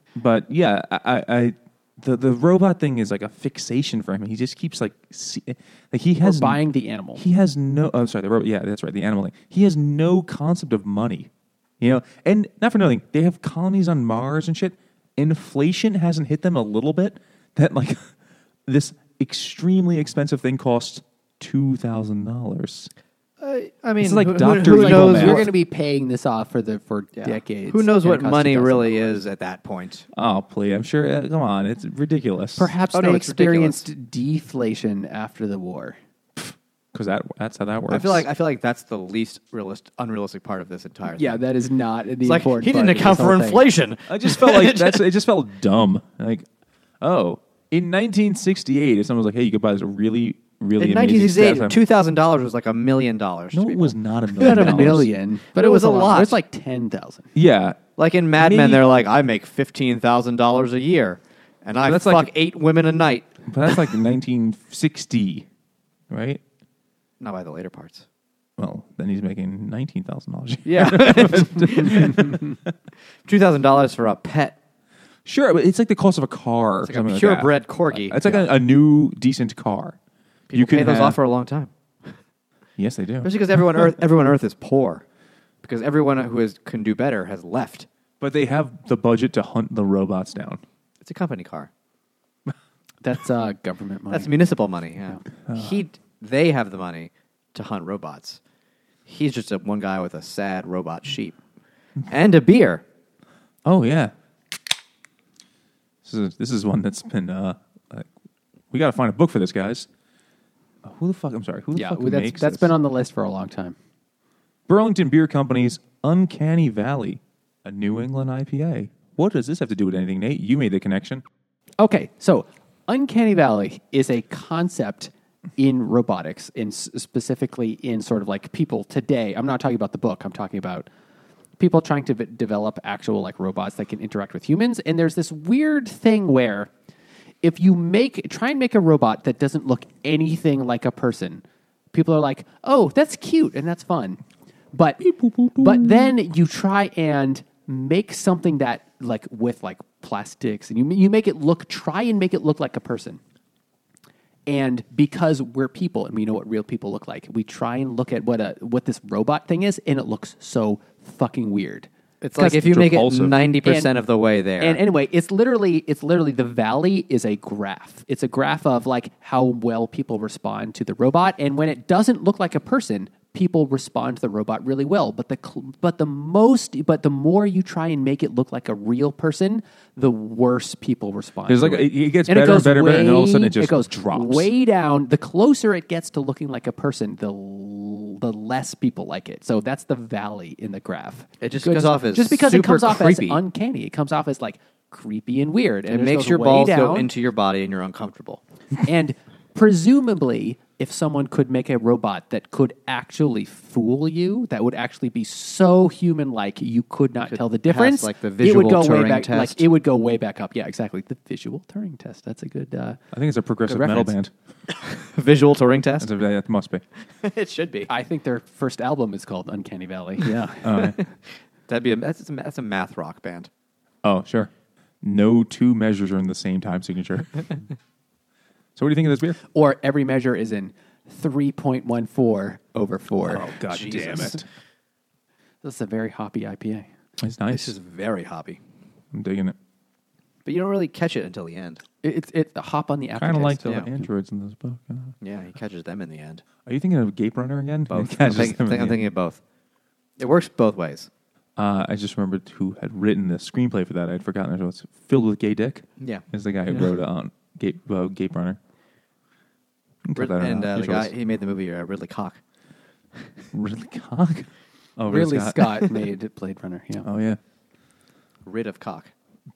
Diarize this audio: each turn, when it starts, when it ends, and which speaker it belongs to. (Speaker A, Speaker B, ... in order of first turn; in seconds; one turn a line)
Speaker A: 0.1-6.6
Speaker B: 6.2-7.2
Speaker A: 7.2-18.1
Speaker A: 18.7-22.9
Speaker C: 23.4-25.5
Speaker A: 24.0-25.5
Speaker B: 24.6-29.2
Speaker C: 27.2-30.1
Speaker A: 30.1-32.7
Speaker B: 32.6-36.0
Speaker C: 32.9-33.9
Speaker A: 36.4-38.3
Speaker C: 37.9-41.4
Speaker B: 41.2-43.7
Speaker C: 42.2-45.0
Speaker A: 44.1-46.5
Speaker A: 47.0-51.8
Speaker C: 50.8-56.4
Speaker A: 53.5-55.1
Speaker B: 54.4-57.3
Speaker A: 57.4-57.8
Speaker C: 58.0-63.7
Speaker A: 58.4-58.9
Speaker A: 61.9-62.3
Speaker A: 63.5-65.5
Speaker A: 66.1-66.4
Speaker C: 67.2-68.1
Speaker A: 68.6-72.6
Speaker C: 70.7-72.4
Speaker C: 73.3-74.6
Speaker A: 75.3-80.0
Speaker C: 76.8-78.5
Speaker C: 80.5-82.2
Speaker A: 80.5-81.2
Speaker A: 82.8-83.9
Speaker C: 83.2-85.0
Speaker C: 85.6-87.9
Speaker A: 88.2-90.6
Speaker C: 91.0-91.7
Speaker B: 93.0-94.3
Speaker C: 94.1-98.4
Speaker A: 95.5-95.8
Speaker C: 99.1-101.4
Speaker C: 102.1-102.8
Speaker A: 103.7-104.1
Speaker A: 106.0-108.1
Speaker A: 108.7-109.9
Speaker A: 110.8-112.7
Speaker B: 111.7-113.8
Speaker A: 114.7-121.2
Speaker B: 121.8-130.9
Speaker B: 131.6-136.7
Speaker B: 137.4-144.2
Speaker B: 144.7-145.0
Speaker A: 145.0-146.1
Speaker B: 145.6-153.2
Speaker B: 154.5-161.9
Speaker C: 162.2-164.8
Speaker A: 162.4-163.4
Speaker B: 163.7-163.9
Speaker B: 164.6-197.1
Speaker A: 181.5-184.5
Speaker C: 191.4-193.4
Speaker C: 195.9-198.4
Speaker B: 198.9-213.0
Speaker C: 207.3-209.6
Speaker A: 213.1-214.3
Speaker B: 213.7-214.1
Speaker C: 214.7-216.1
Speaker A: 216.0-216.8
Speaker C: 217.2-217.9
Speaker B: 217.9-220.9
Speaker A: 220.6-221.0
Speaker C: 221.7-223.5
Speaker A: 224.0-224.5
Speaker A: 225.0-227.5
Speaker A: 228.8-229.4
Speaker B: 229.5-234.4
Speaker A: 233.2-234.4
Speaker C: 233.7-234.4
Speaker B: 235.6-236.9
Speaker A: 237.2-237.8
Speaker C: 237.5-238.6
Speaker A: 239.1-239.6
Speaker C: 240.4-241.8
Speaker B: 242.0-243.8
Speaker A: 243.2-245.2
Speaker C: 245.2-246.4
Speaker A: 246.7-249.0
Speaker C: 247.9-249.4
Speaker C: 250.2-251.1
Speaker A: 251.6-258.6
Speaker C: 256.0-256.2
Speaker A: 260.1-261.1
Speaker C: 260.2-262.4
Speaker A: 263.5-265.9
Speaker B: 265.1-267.1
Speaker A: 267.0-267.4
Speaker C: 268.4-269.1